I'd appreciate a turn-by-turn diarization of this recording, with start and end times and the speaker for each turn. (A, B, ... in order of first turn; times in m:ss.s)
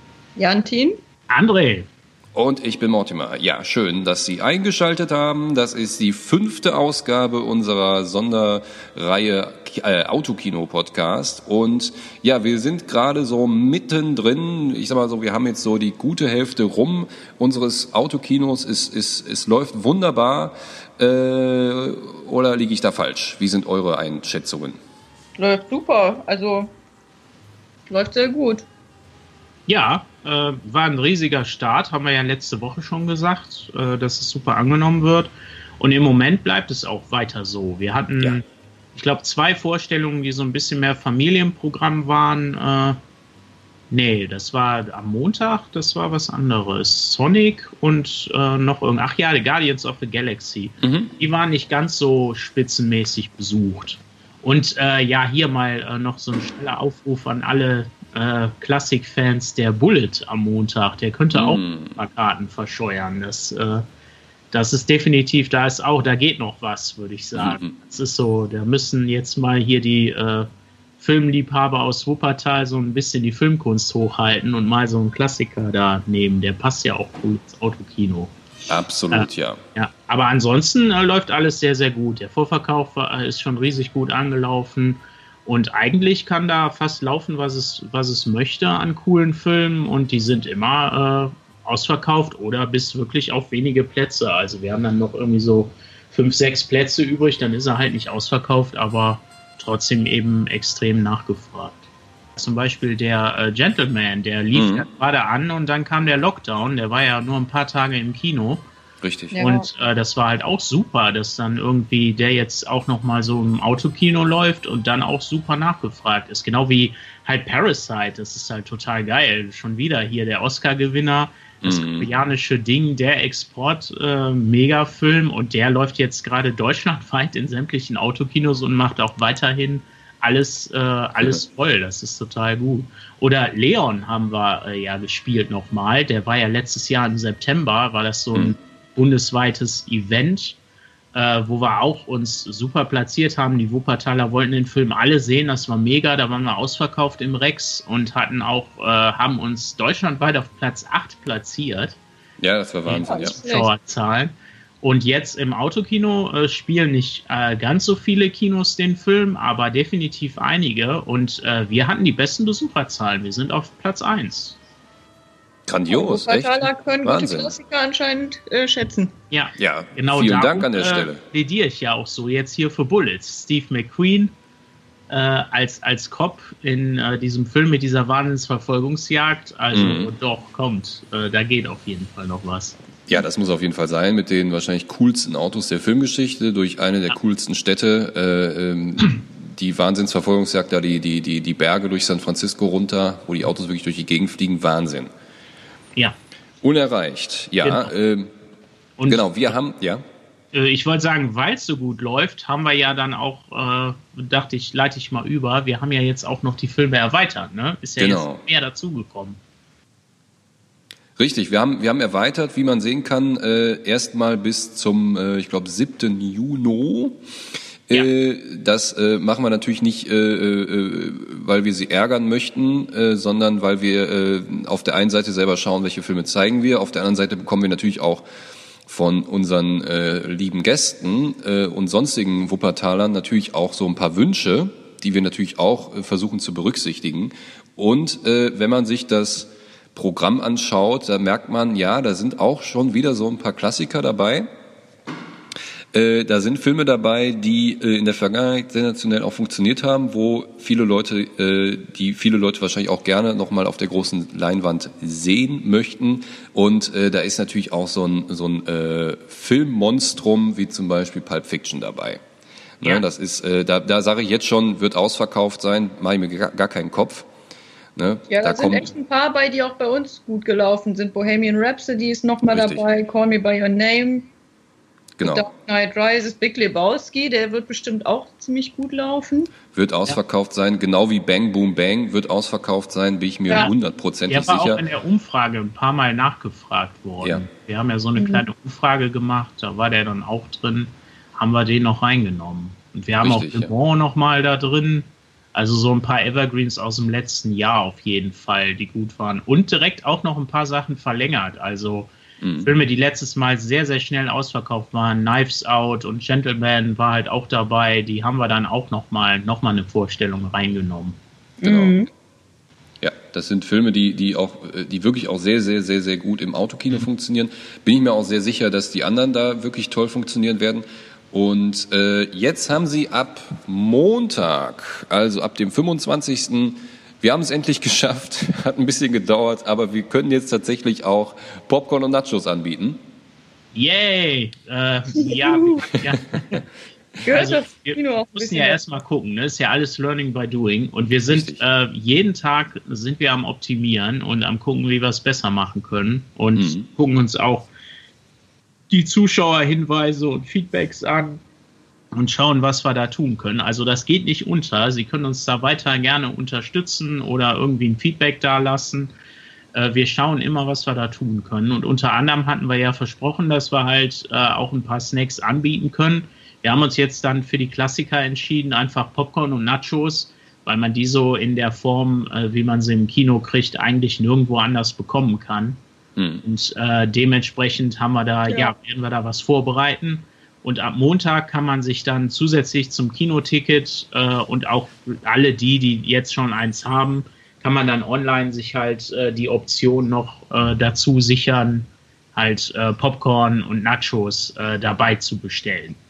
0:00.4-0:01.0 A
0:01.3-0:01.9 B
0:02.3-0:24.8 C
0:25.4-0:26.7 A
0:27.9-0:28.6 A
0:29.7-0:38.4 B
0:38.9-0:43.0 B
0:43.9-1:03.8 B
0:50.8-0:51.1 C
1:01.3-1:02.0 C
1:04.5-1:18.3 B
1:07.4-1:07.7 C
1:18.7-1:19.6 C
1:19.1-1:41.8 B
1:42.4-1:48.6 B
1:44.5-1:44.9 C
1:49.0-1:49.4 C
1:49.3-1:49.7 A
1:49.4-2:20.6 B
2:01.6-2:02.1 C
2:21.1-2:32.0 B
2:32.4-2:33.4 C
2:32.8-2:44.6 B
2:33.0-2:33.7 A
2:45.7-2:47.5 C
2:45.9-2:49.1 A
2:49.3-2:54.3 B
2:49.6-2:51.2 C
2:55.1-3:02.8 B
2:59.7-3:00.1 C
3:03.1-3:15.1 C
3:16.6-3:18.3 C
3:17.6-3:17.9 B
3:19.0-3:19.3 B
3:19.1-3:20.0 C
3:20.5-3:29.4 B
3:28.0-3:28.4 C
3:31.2-3:37.2 C
3:37.9-3:48.2 C
3:48.9-4:04.5 C
4:05.9-4:22.2 C
4:22.8-4:27.3 C
4:28.0-4:28.9 C
4:28.3-4:34.3 A
4:32.5-4:32.8 C
4:35.2-4:35.5 C
4:35.2-4:39.5 A
4:39.7-4:44.8 C
4:44.3-5:11.2 B
4:48.2-4:48.4 A
4:53.2-4:53.7 C
5:02.4-5:02.7 C
5:11.6-5:12.1 A
5:11.6-5:12.0 C
5:13.0-5:33.0 C
5:33.7-5:36.6 B
5:35.1-5:36.0 A
5:37.2-5:38.8 A
5:37.3-5:47.7 B
5:41.3-5:41.6 C
5:46.6-5:46.8 C
5:48.9-5:51.4 B
5:52.1-5:59.1 B
5:59.7-6:15.8 B
6:16.2-6:16.4 C
6:16.4-6:36.0 B